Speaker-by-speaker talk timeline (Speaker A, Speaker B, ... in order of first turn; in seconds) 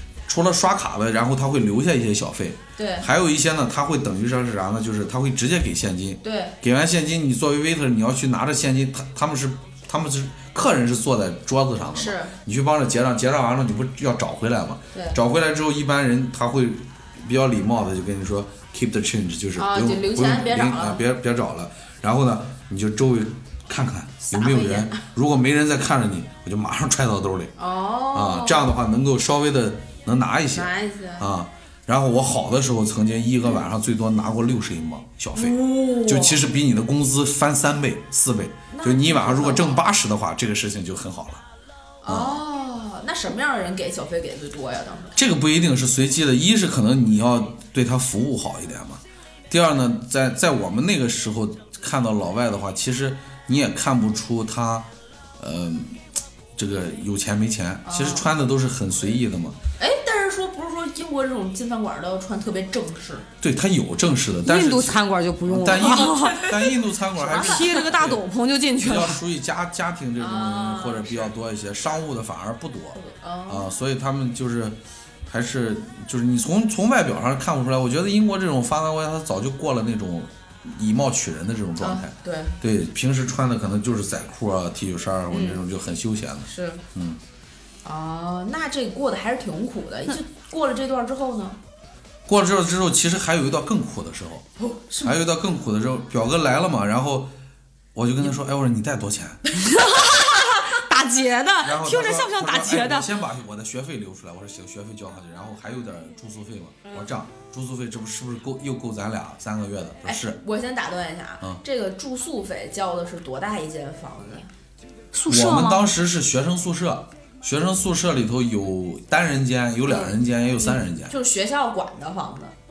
Speaker A: 0.3-27.5, 28.1-41.4, 42.0-42.4, 45.1-56.0, 56.5-59.6, 63.4-68.2, 68.8-87.2, 92.2-94.4, 95.0-97.3, 97.9-99.4, 101.6-110.4, 115.3-121.1
Speaker B: 2.8-3.1, 6.2-6.5, 11.9-12.3, 14.9-15.2, 19.6-21.0, 24.3-25.0, 27.6-28.7, 30.5-31.3, 35.3-36.4, 38.7-39.8, 42.0-45.2, 57.8-58.3, 59.8-63.3, 65.7-67.8, 70.2-71.3, 72.9-73.7, 81.8-82.5, 85.3-85.6, 86.5-86.8, 87.8-91.6, 94.6-95.2, 106.8-107.1, 110.0-114.5, 119.8-122.5
Speaker C: 64.4-66.5, 67.3-69.2, 99.6-103.1, 115.1-115.8